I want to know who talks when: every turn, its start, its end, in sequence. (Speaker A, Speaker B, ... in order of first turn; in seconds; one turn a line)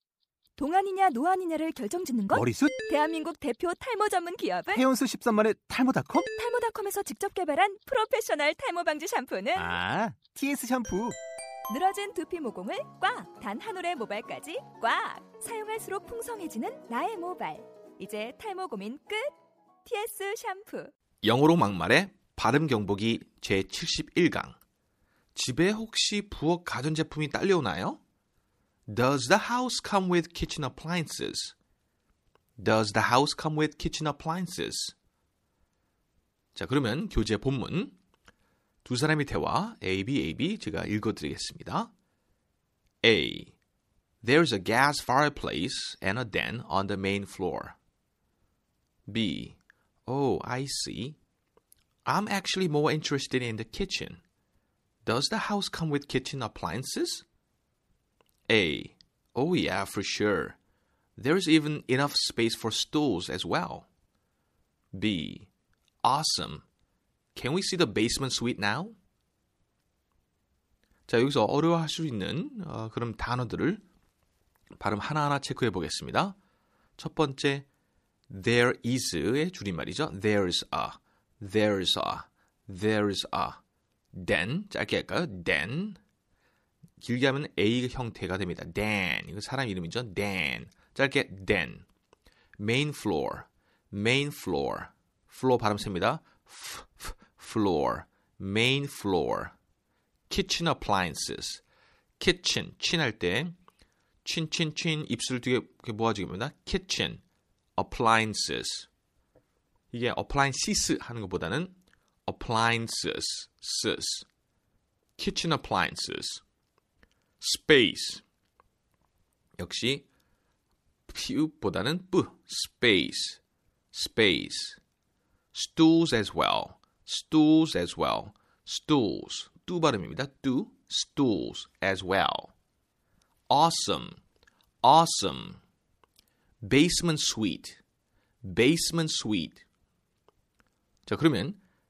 Speaker A: 0.6-4.8
Speaker B: 2.3-2.7
Speaker B: 4.7-6.2
Speaker A: 6.2-9.7
Speaker B: 9.6-11.2
Speaker A: 11.7-19.3
Speaker A: 19.8-20.9
Speaker C: 21.2-24.6
Speaker C: 25.3-28.0
Speaker C: 28.9-31.6
Speaker C: 32.6-34.9
Speaker C: 36.5-38.0
Speaker C: 38.8-41.9
Speaker C: 43.0-43.5
Speaker C: 44.2-47.8
Speaker C: 49.1-51.2
Speaker C: 52.0-54.2
Speaker C: 55.0-57.2
Speaker C: 58.5-60.6
Speaker C: 61.2-63.9
Speaker C: 64.9-65.5
Speaker C: 66.0-66.6
Speaker C: 67.3-69.0
Speaker C: 71.1-73.8
Speaker C: 74.8-76.3
Speaker C: 77.0-77.7
Speaker C: 78.3-83.6
Speaker C: 84.1-86.0
Speaker C: 87.0-91.8
Speaker C: 92.6-99.5
Speaker C: 100.3-101.6
Speaker C: 102.2-103.5
Speaker C: 104.2-107.2
Speaker C: 107.8-108.9
Speaker C: 109.9-111.7
Speaker C: 112.3-114.2
Speaker C: 115.2-116.4
Speaker C: 117.4-118.2
Speaker C: 119.6-120.1
Speaker C: 121.1-124.8
Speaker C: 125.5-132.5
Speaker C: 133.5-134.2
Speaker C: 134.8-135.6
Speaker C: 136.6-137.8
Speaker C: 138.4-139.6
Speaker C: 141.1-141.6